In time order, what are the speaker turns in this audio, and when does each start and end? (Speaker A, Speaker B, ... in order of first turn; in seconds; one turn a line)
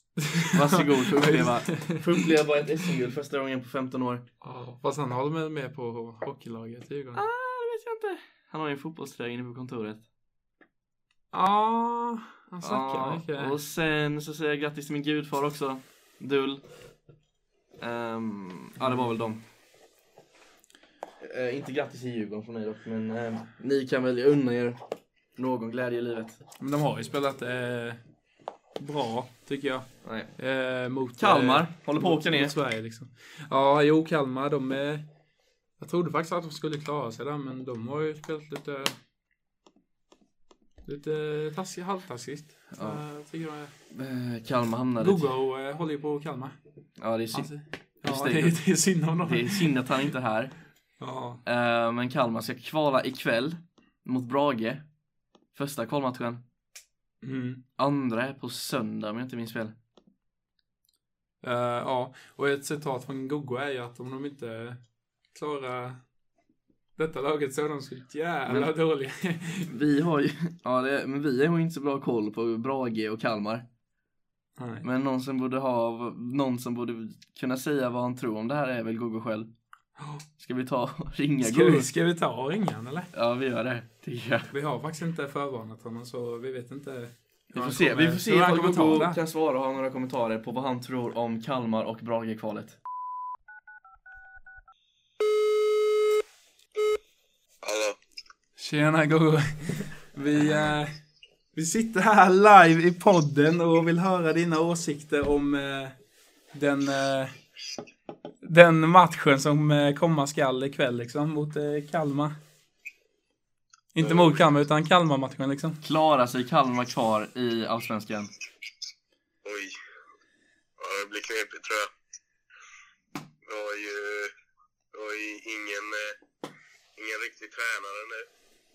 Speaker A: 0.3-2.2
Speaker B: 0.5-4.2
Speaker A: 4.4-7.2
Speaker B: 7.1-10.0
Speaker A: 11.3-13.6
Speaker B: 12.6-16.6
Speaker B: 17.8-19.4
Speaker A: 18.8-19.1
Speaker B: 21.2-24.8
Speaker B: 25.4-26.4
Speaker A: 26.6-28.0
Speaker A: 28.8-35.1
Speaker B: 30.0-30.3
Speaker B: 31.2-32.5
Speaker A: 35.8-39.0
Speaker A: 40.8-43.7
Speaker B: 42.7-43.0
Speaker B: 43.9-45.2
Speaker A: 45.0-46.6
Speaker B: 47.0-47.5
Speaker A: 47.3-49.9
Speaker B: 48.0-48.6
Speaker B: 49.2-50.5
Speaker A: 51.0-51.4
Speaker B: 51.4-54.9
Speaker B: 55.5-56.4
Speaker A: 57.2-57.6
Speaker B: 57.8-59.8
Speaker A: 61.4-64.8
Speaker A: 65.3-66.0
Speaker A: 67.0-69.7
Speaker B: 68.5-68.7
Speaker B: 69.7-73.7
Speaker A: 74.6-74.8
Speaker B: 74.8-79.5
Speaker A: 80.0-80.2
Speaker B: 80.4-81.9
Speaker A: 81.4-83.1
Speaker B: 83.1-84.5
Speaker A: 84.5-89.2
Speaker B: 87.5-92.8
Speaker C: 97.6-98.0
Speaker A: 98.6-100.9
Speaker A: 101.5-105.9
Speaker A: 106.5-107.3
Speaker A: 108.4-112.3
Speaker A: 113.9-115.8
Speaker B: 115.8-118.3
Speaker C: 119.4-119.8
Speaker C: 120.8-121.9
Speaker C: 123.5-124.3
Speaker C: 124.9-126.2
Speaker C: 127.0-128.3